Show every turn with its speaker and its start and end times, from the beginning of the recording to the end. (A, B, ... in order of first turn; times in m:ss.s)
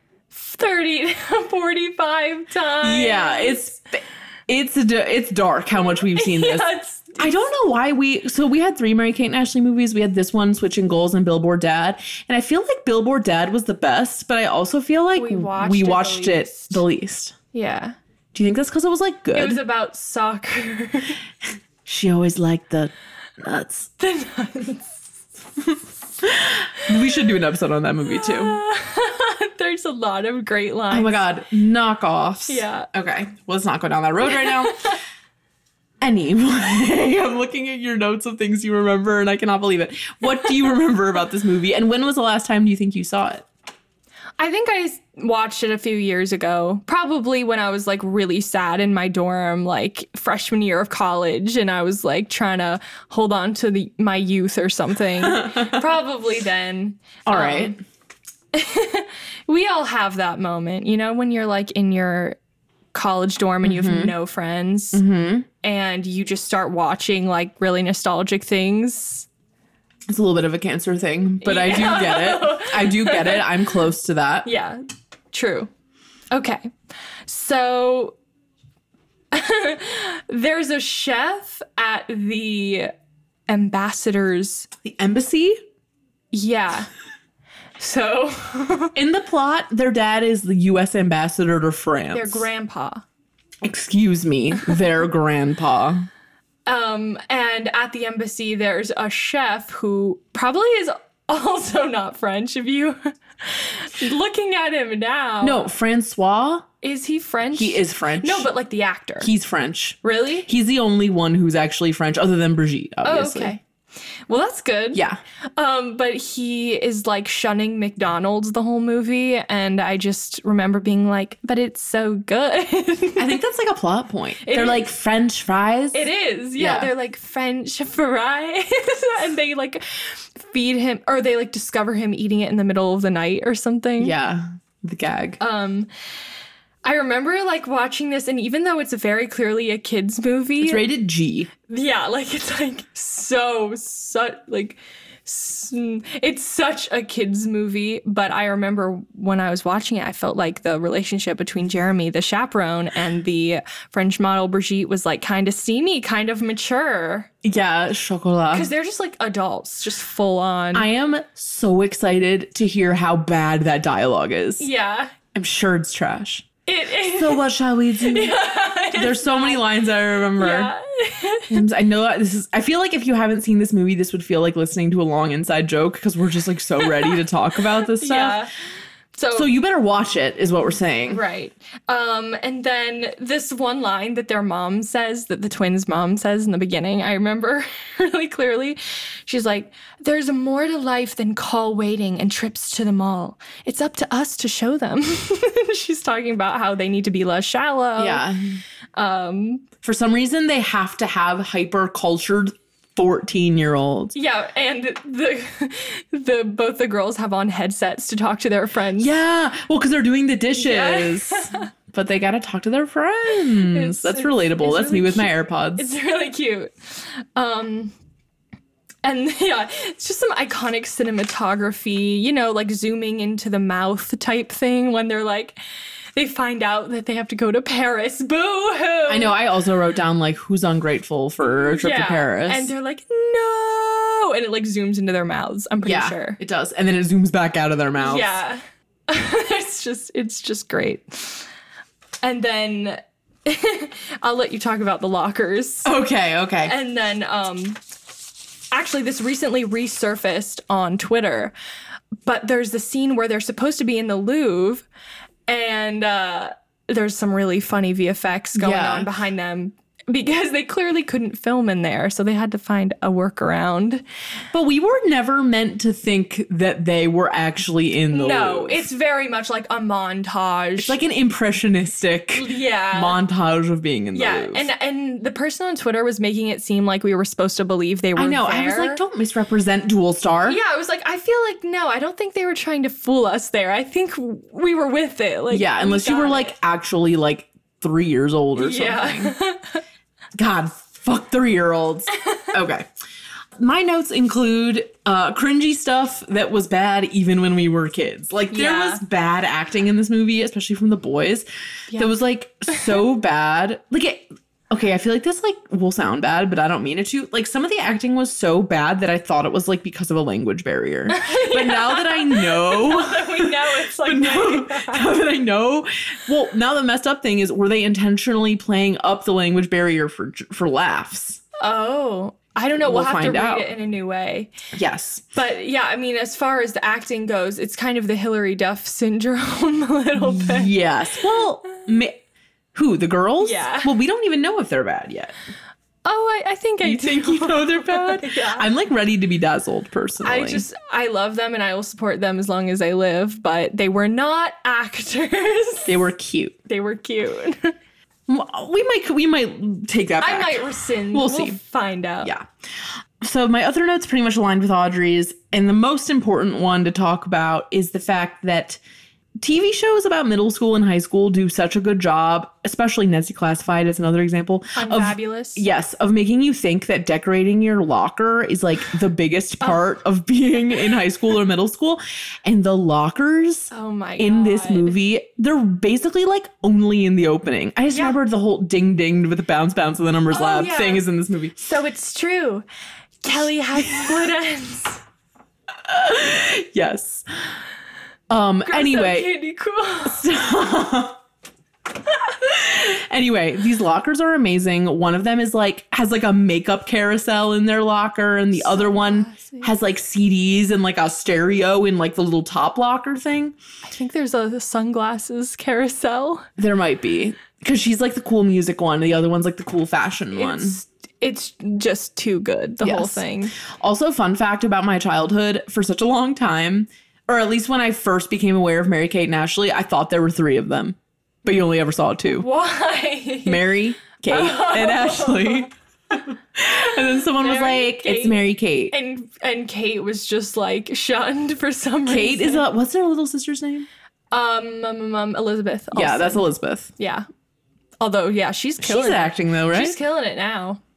0:00.3-0:03.7 A
0:02.8-0:17.3 B
0:06.1-0:07.4 A
0:15.1-0:16.8 A
0:17.5-0:18.0 A
0:18.3-0:19.6 B
0:19.3-0:21.2 A
0:21.8-0:23.9 B
0:24.0-0:25.0 A
0:26.2-0:28.6 B
0:28.1-0:31.2 A
0:30.9-0:34.9 B
0:32.5-0:32.9 A
0:34.3-0:34.9 A
0:36.0-0:43.4 B
0:44.4-0:57.7 A
0:55.2-0:55.8 B
0:57.2-0:57.8 B
0:58.5-1:02.4 A
1:02.9-1:05.0 A
1:03.6-1:04.1 B
1:04.9-1:05.5 B
1:05.6-1:09.3 A
1:10.1-1:14.5 B
1:11.4-1:13.5 A
1:14.4-1:15.7 A
1:16.3-1:16.7 A
1:17.2-1:18.2 A
1:19.3-1:22.9 A
1:23.5-1:24.7 A
1:24.8-1:25.6 B
1:26.3-1:26.9 A
1:27.8-1:28.9 A
1:28.9-1:32.5 B
1:32.1-1:33.0 A
1:33.6-1:36.1 B
1:36.6-1:45.7 A
1:45.4-1:46.7 B
1:46.8-1:49.3 A
1:47.5-1:48.5 B
1:49.2-1:53.6 B
1:50.0-1:50.5 A
1:53.0-1:53.6 A
1:54.3-1:55.0 A
1:54.9-1:55.2 B
1:55.6-2:03.4 A
2:03.2-2:06.9 B
2:04.4-2:04.9 A
2:05.9-2:14.1 A
2:14.0-2:15.4 B
2:15.4-2:15.9 A
2:16.8-2:20.8 A
2:20.6-2:21.5 B
2:21.7-2:37.3 A
2:37.4-2:38.7 B
2:38.5-2:40.8 A
2:40.7-2:44.7 B
2:44.6-2:45.1 A
2:45.3-2:46.4 B
2:46.7-2:47.5 A
2:47.1-2:48.4 B
2:48.0-2:49.6 A
2:48.9-2:50.7 B
2:50.4-2:51.6 A
2:51.5-2:58.4 B
2:57.9-2:58.5 A
2:59.1-2:59.5 A
2:59.3-3:01.2 B
3:01.1-3:18.2 A
3:18.0-3:18.6 B
3:19.0-3:19.6 A
3:19.8-3:24.1 B
3:24.1-3:29.1 A
3:29.0-3:35.9 B
3:30.5-3:31.6 A
3:33.6-3:37.9 A
3:39.0-3:45.6 A
3:46.1-3:49.3 A
3:49.1-3:52.7 B
3:51.4-3:56.4 A
3:55.8-3:58.3 B
3:58.0-4:01.5 A
4:02.2-4:05.9 A
4:05.8-4:06.7 B
4:06.6-4:07.8 A
4:08.7-4:11.5 A
4:12.2-4:14.8 A
4:15.5-4:24.0 A
4:18.5-4:19.1 B
4:24.5-4:28.9 B
4:28.1-4:31.0 A
4:30.8-4:34.7 B
4:32.3-4:33.2 A
4:34.1-4:39.0 A
4:38.2-4:40.6 B
4:40.4-4:46.5 A
4:45.5-4:49.3 B
4:48.6-4:49.8 A
4:50.4-4:52.9 B
4:53.6-5:21.4 B
4:58.5-4:59.0 A
5:11.1-5:15.1 A
5:21.6-5:24.5 A
5:22.8-5:23.7 B
5:24.7-5:25.2 B
5:25.3-5:30.7 A
5:30.2-5:32.2 B
5:32.7-5:35.3 B
5:33.4-5:33.9 A
5:36.0-5:38.7 A
5:36.8-5:40.7 B
5:40.2-5:45.9 A
5:45.8-5:46.6 B
5:46.7-5:47.8 A
5:48.3-5:51.6 B
5:50.2-5:52.3 A
5:52.2-5:52.5 B
5:53.2-5:58.8 B
5:59.4-6:21.6 B
6:04.8-6:05.6 A
6:13.7-6:14.9 A
6:17.9-6:18.2 A
6:20.3-6:21.0 A
6:21.6-6:22.6 A
6:23.2-6:25.0 A
6:23.9-6:24.2 B
6:25.8-6:27.2 B
6:28.3-6:29.3 B
6:28.6-6:30.2 A
6:30.0-6:31.2 B
6:32.3-6:43.6 B
6:38.5-6:39.7 A
6:43.8-6:46.4 A
6:46.6-6:50.8 B
6:50.3-6:53.5 A
6:52.8-7:02.5 B
7:02.3-7:03.6 A
7:03.4-7:08.9 B
7:04.2-7:05.7 A
7:07.4-7:12.7 A
7:12.0-7:13.9 B
7:14.3-7:17.2 A
7:15.9-7:16.9 B
7:18.0-7:20.8 A
7:18.8-7:20.0 B